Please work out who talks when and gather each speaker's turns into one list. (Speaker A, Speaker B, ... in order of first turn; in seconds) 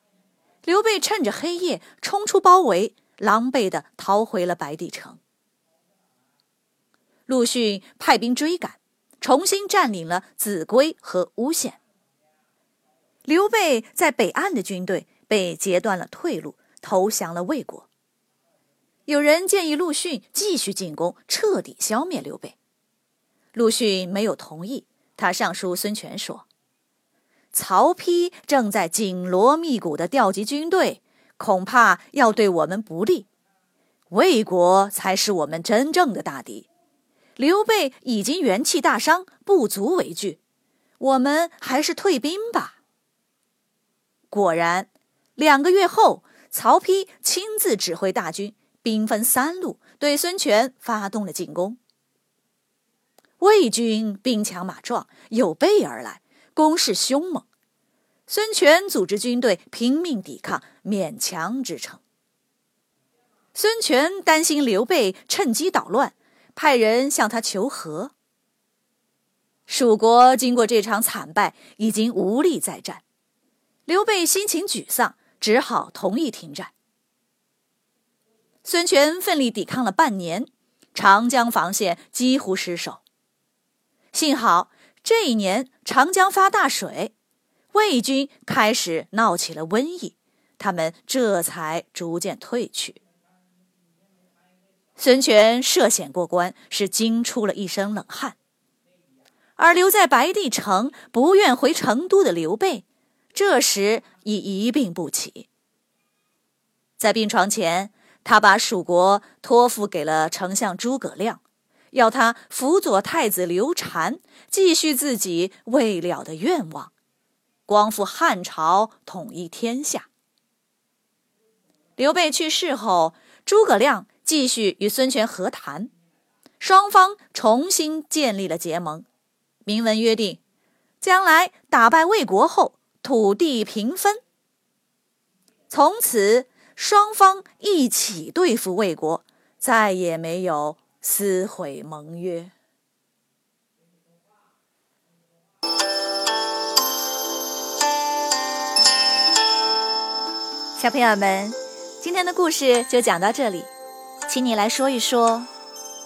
Speaker A: 0.6-5.2, 7.3-11.8, 13.2-17.9, 19.1-22.6, 23.5-26.4, 27.5-33.3, 34.1-36.7, 37.4-40.4, 41.0-42.8, 44.3-51.8, 53.4-57.5, 58.3-62.0, 63.5-68.1, 69.7-73.0, 73.9-76.7, 78.6-83.0, 84.1-87.1, 87.7-93.0, 95.0-98.3, 99.6-105.5, 107.0-111.4, 111.9-116.9, 117.7-120.1, 122.0-125.9, 126.6-129.1, 129.6-130.4, 131.0-134.2, 135.7-142.5, 150.8-153.7, 154.3-155.5